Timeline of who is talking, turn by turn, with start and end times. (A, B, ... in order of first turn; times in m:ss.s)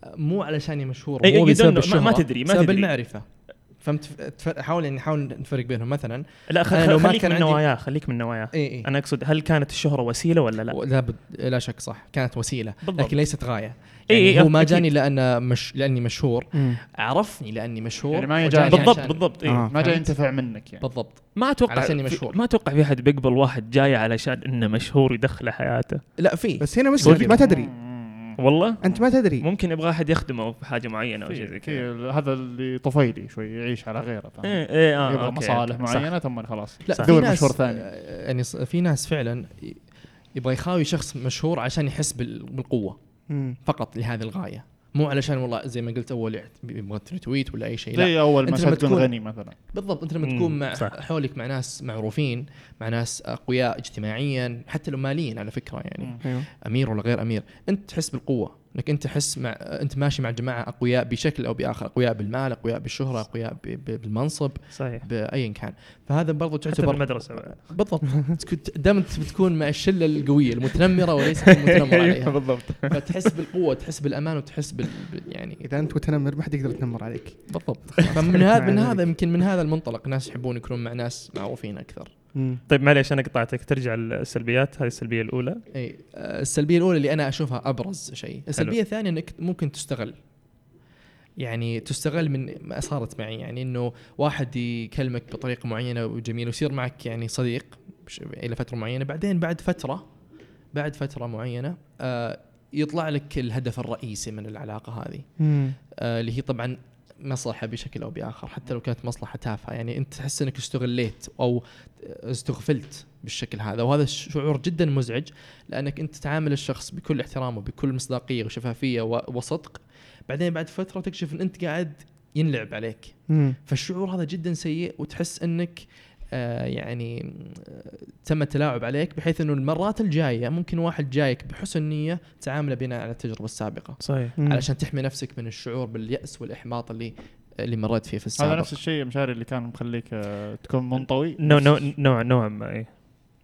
0:00.2-0:07.9 A
0:01.2-0:03.0 B
0:06.5-0:10.8 B
0:08.5-0:08.9 A
0:10.7-0:22.4 A
0:12.8-0:14.9 B
0:16.5-0:16.8 C
0:18.1-0:20.9 D
0:18.6-0:20.0 B
0:19.4-0:20.0 C
0:21.3-0:26.2 B
0:26.2-0:27.4 A
0:26.6-0:27.7 C
0:27.0-0:27.4 B
0:27.3-0:29.0 D
0:28.4-0:31.8 B
0:28.8-0:29.5 C
0:31.2-0:37.9 D
0:34.4-0:36.2 B
0:36.8-1:15.6 A
0:36.9-0:37.2 B
0:43.3-0:43.6 C
0:47.9-0:49.6 D
0:50.2-0:51.0 B
0:56.2-0:56.5 C
1:04.7-1:05.1 B
1:06.7-1:07.8 B
1:11.8-1:13.2 B
1:15.6-1:19.1 C
1:17.5-1:22.2 A
1:22.3-1:22.6 C
1:22.7-1:25.6 B
1:25.7-1:30.8 A
1:31.4-2:18.8 A
1:45.4-1:45.8 C
2:03.3-2:03.6 C
2:14.0-2:14.4 B
2:14.4-2:14.6 C
2:18.4-2:22.0 D
2:21.4-2:22.9 B